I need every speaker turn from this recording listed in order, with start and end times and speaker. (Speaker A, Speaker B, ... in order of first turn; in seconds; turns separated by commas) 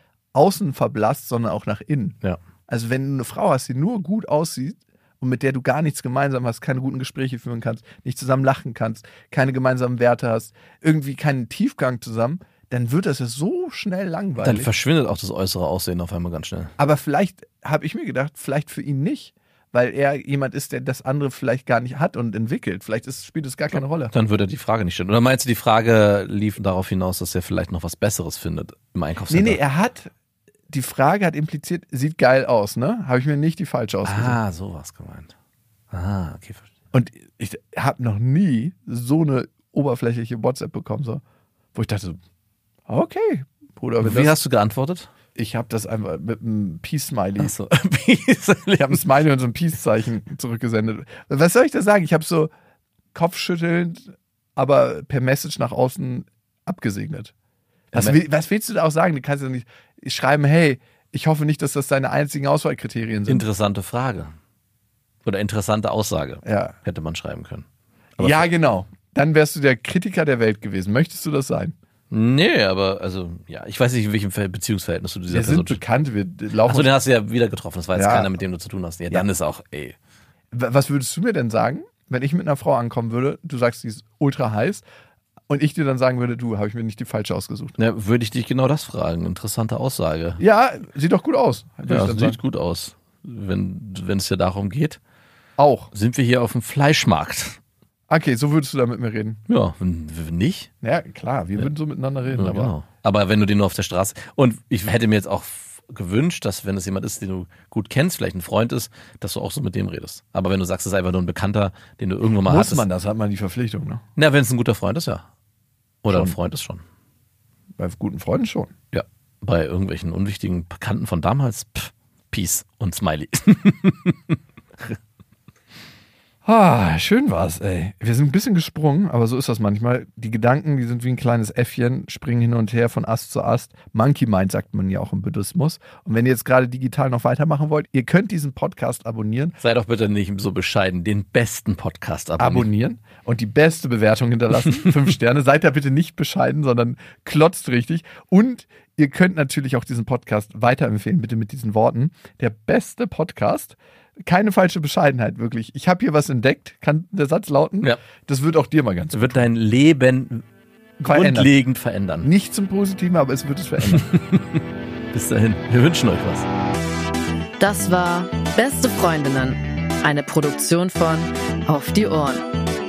Speaker A: 0.3-2.2, Speaker A: 2.7-14.7, Speaker B: 14.4-16.7, Speaker A: 16.8-24.1, Speaker B: 24.1-29.6, Speaker A: 29.3-30.1, Speaker A: 30.7-34.4, Speaker B: 34.0-35.3, Speaker B: 35.9-36.7, Speaker A: 36.9-41.2, Speaker A: 41.7-42.2, Speaker A: 42.9-44.4, Speaker B: 44.0-45.1, Speaker A: 45.4-47.5, Speaker B: 47.4-49.1, Speaker A: 48.7-52.5, Speaker A: 53.1-57.3, Speaker A: 57.9-63.5, Speaker B: 63.3-64.3, Speaker B: 65.2-67.6, Speaker A: 66.4-66.8, Speaker B: 68.2-68.5, Speaker A: 68.2-71.7, Speaker B: 72.1-75.8, Speaker A: 75.3-76.9, Speaker B: 76.6-80.0, Speaker A: 77.9-78.3, Speaker A: 80.5-84.8, Speaker A: 85.5-87.8, Speaker B: 87.8-90.4, Speaker A: 90.4-92.4, Speaker B: 91.9-95.0, Speaker A: 95.6-95.9, Speaker B: 95.9-97.6, Speaker A: 98.1-99.4, Speaker B: 99.5-100.7, Speaker A: 100.8-102.7, Speaker B: 102.3-112.9, Speaker A: 112.5-114.0, Speaker B: 114.2-115.3, Speaker B: 116.0-116.8, Speaker A: 116.1-116.4, Speaker A: 117.8-118.7, Speaker B: 118.9-125.0, Speaker A: 126.5-139.6, Speaker B: 139.6-142.7, Speaker A: 142.4-159.5, Speaker B: 159.1-160.4, Speaker A: 161.0-161.5, Speaker B: 161.0-162.3, Speaker A: 162.2-164.1, Speaker B: 163.9-164.6, Speaker B: 165.1-166.5, Speaker C: 167.6-172.4